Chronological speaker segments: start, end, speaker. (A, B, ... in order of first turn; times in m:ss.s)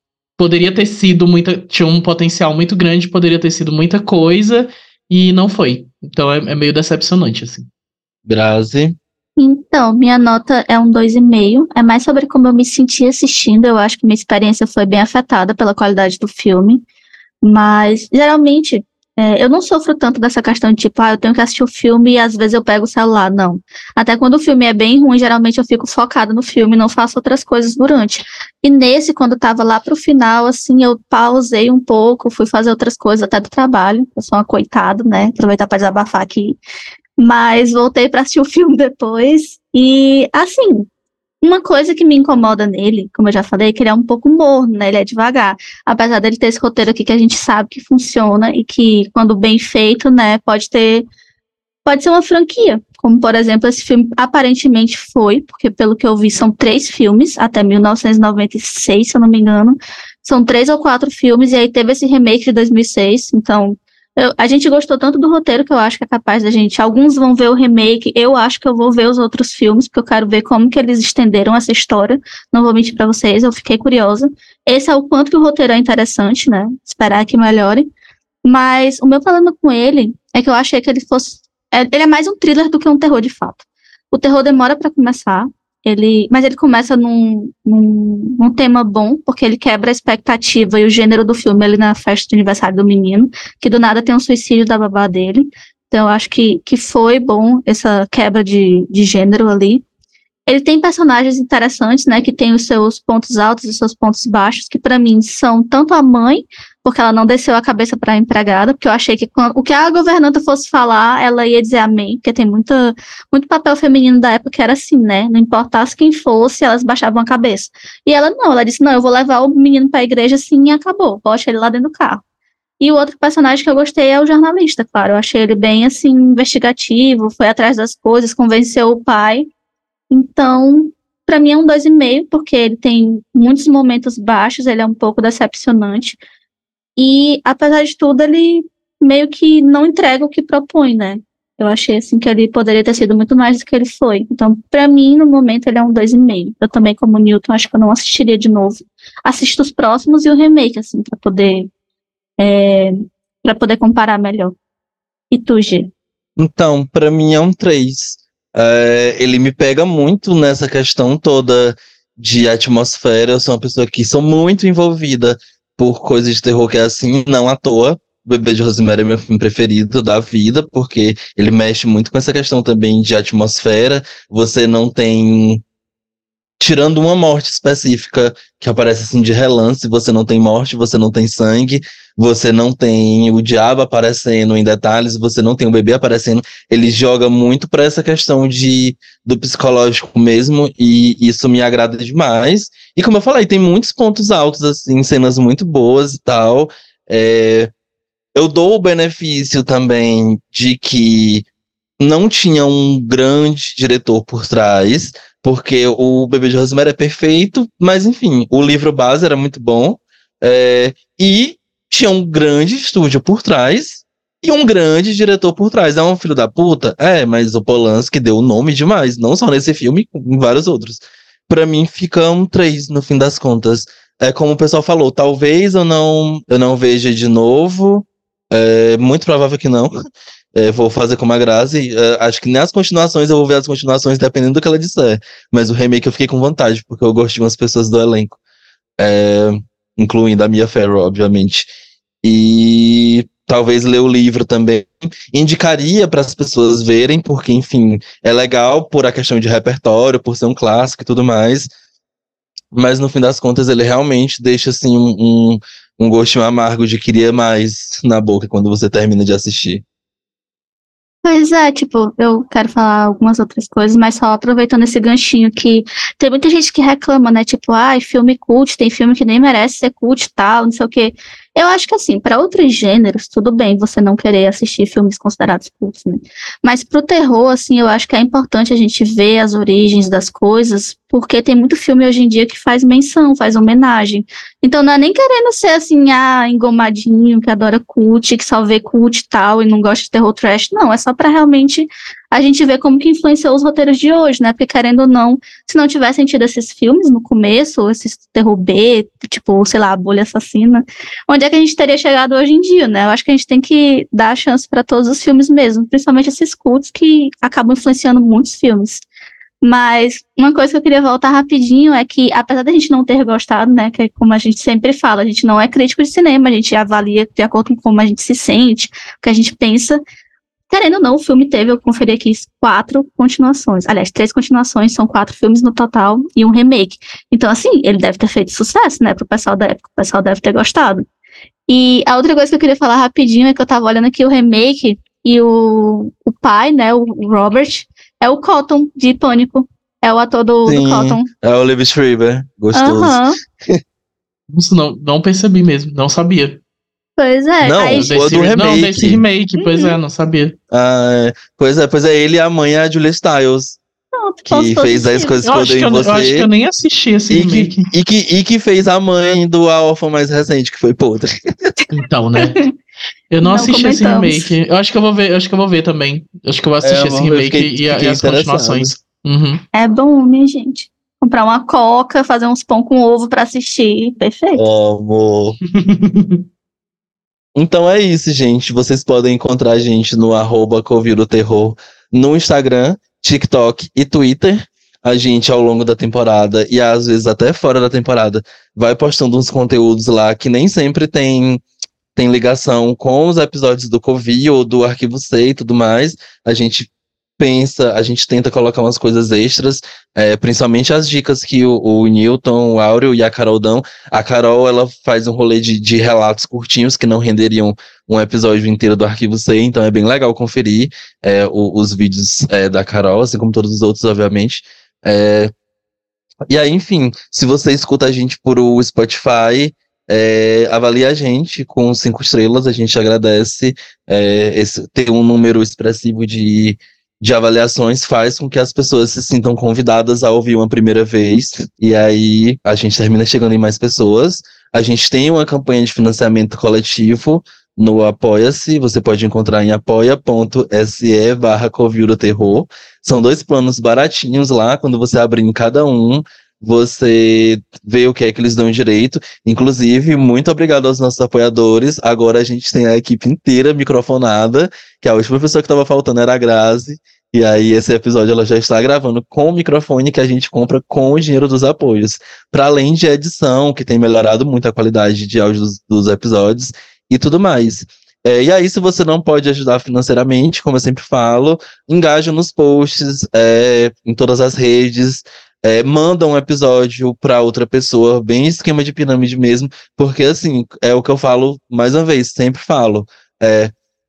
0:00.4-0:07.7 A
0:08.3-0:09.0 B
0:09.4-0:16.8 C
0:17.4-0:36.6 C
0:37.2-0:40.9 C
0:41.4-0:51.1 C
0:51.8-1:17.9 C
1:18.4-1:39.8 C
1:40.5-2:02.2 C
2:02.8-2:09.5 C
2:10.1-2:16.2 C
2:17.0-2:31.7 C
2:32.4-2:34.6 C
2:35.3-2:35.9 C
2:36.4-2:55.6 B
2:56.6-3:17.7 B
3:18.4-3:21.4 B
3:22.0-3:50.0 B
3:50.6-3:58.4 B
3:59.0-4:01.7 B
4:02.2-4:11.7 B
4:12.7-4:19.8 B
4:21.2-5:09.0 C
5:09.6-5:20.0 C
5:20.7-5:31.0 C
5:31.7-5:41.3 C
5:40.6-5:43.8 B
5:42.7-5:43.4 C
5:44.5-5:46.6 A
5:47.2-5:48.4 C
5:47.6-5:49.2 B
5:47.9-5:50.6 A
5:49.6-5:50.0 C
5:50.7-5:53.8 B
5:54.1-5:55.4 C
5:54.5-5:56.5 B
5:55.4-5:57.9 A
5:57.3-6:01.8 B
6:01.9-6:02.6 A
6:02.4-6:02.7 C
6:03.3-6:09.6 A
6:03.4-6:04.5 C
6:06.8-6:08.9 B
6:09.7-6:14.6 C
6:14.6-6:15.6 B
6:15.7-6:16.4 A
6:17.6-6:31.6 B
6:32.2-6:55.5 B
6:56.5-8:03.7 B